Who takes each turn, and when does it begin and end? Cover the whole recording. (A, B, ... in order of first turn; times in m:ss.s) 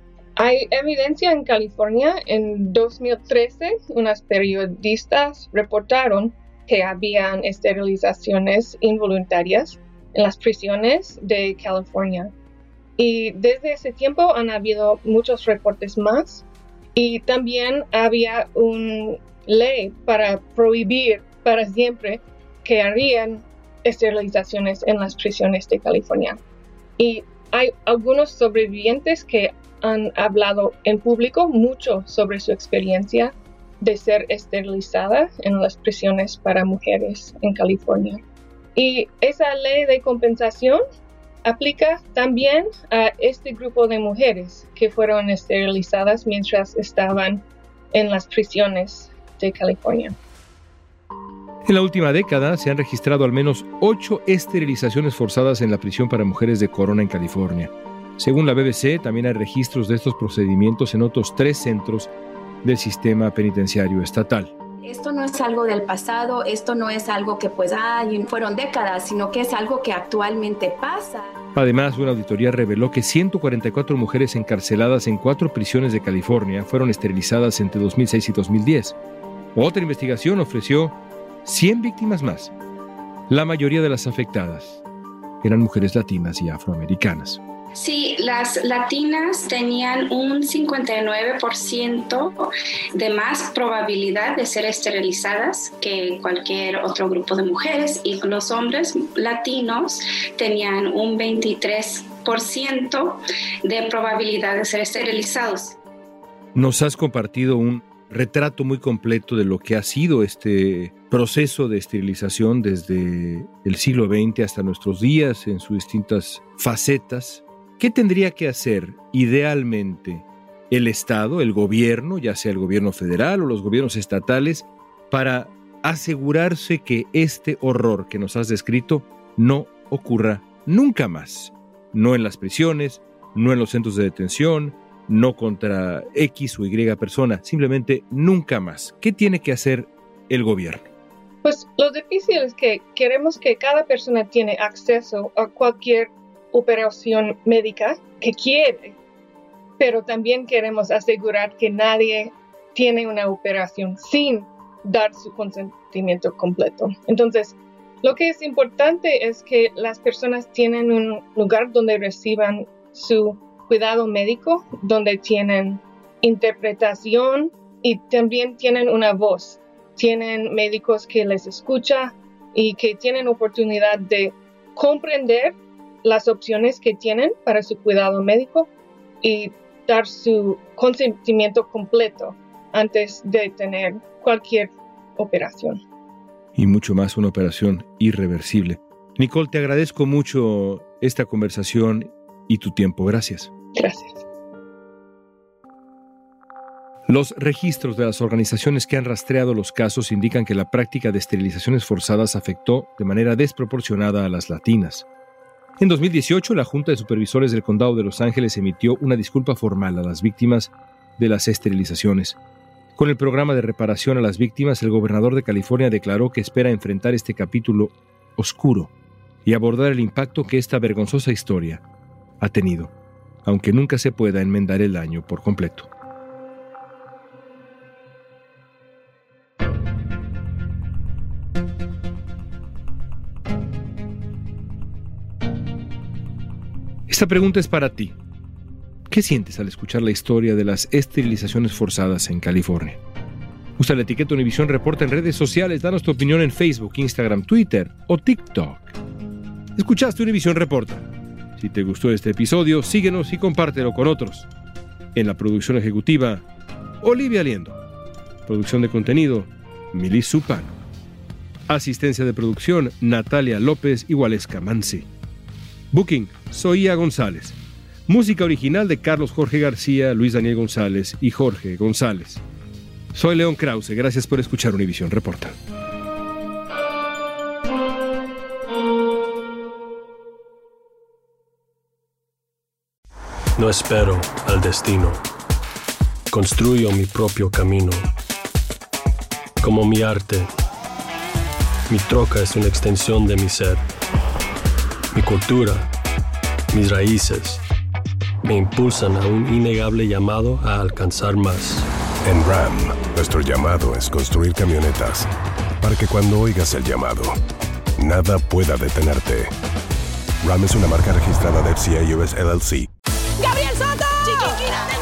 0:00.4-0:12.3 A
0:13.0-0:26.4 A
0:27.0-0:38.2 A
0:38.8-0:40.8 A
0:41.4-0:50.1 A
0:51.6-1:02.1 B
1:02.6-1:04.5 B
1:04.8-1:11.3 C
1:11.5-1:19.0 B
1:19.6-1:22.5 B
1:23.3-1:24.8 B
1:25.4-1:27.4 B
1:27.7-1:45.8 D
1:46.5-2:20.9 B
2:21.4-2:29.0 A
2:29.8-2:58.7 A
2:59.2-3:05.8 A
3:06.5-3:13.5 B
3:13.7-3:14.2 A
3:17.1-3:25.0 B
3:25.8-3:32.4 B
3:33.0-3:38.9 B
3:39.4-3:41.8 B
3:42.4-3:42.9 B
3:43.4-3:45.9 B
3:57.1-3:58.1 B
3:59.1-4:03.0 B
4:03.8-4:08.9 B
4:09.8-4:11.1 B
4:11.6-4:14.5 B
4:15.1-4:16.4 B
4:17.0-4:17.8 B
4:18.4-4:20.7 B
4:21.7-4:25.1 B
4:25.9-4:32.4 B
4:33.1-4:35.5 B
4:43.6-4:45.2 E
4:46.3-4:48.1 E
4:49.6-4:50.5 E
4:51.9-4:53.8 E
4:55.1-4:55.9 E
4:56.7-4:57.6 E
4:58.4-5:01.9 E
5:02.2-5:05.3 F
5:05.8-5:07.4 F
5:08.0-5:09.5 F
5:10.4-5:12.9 F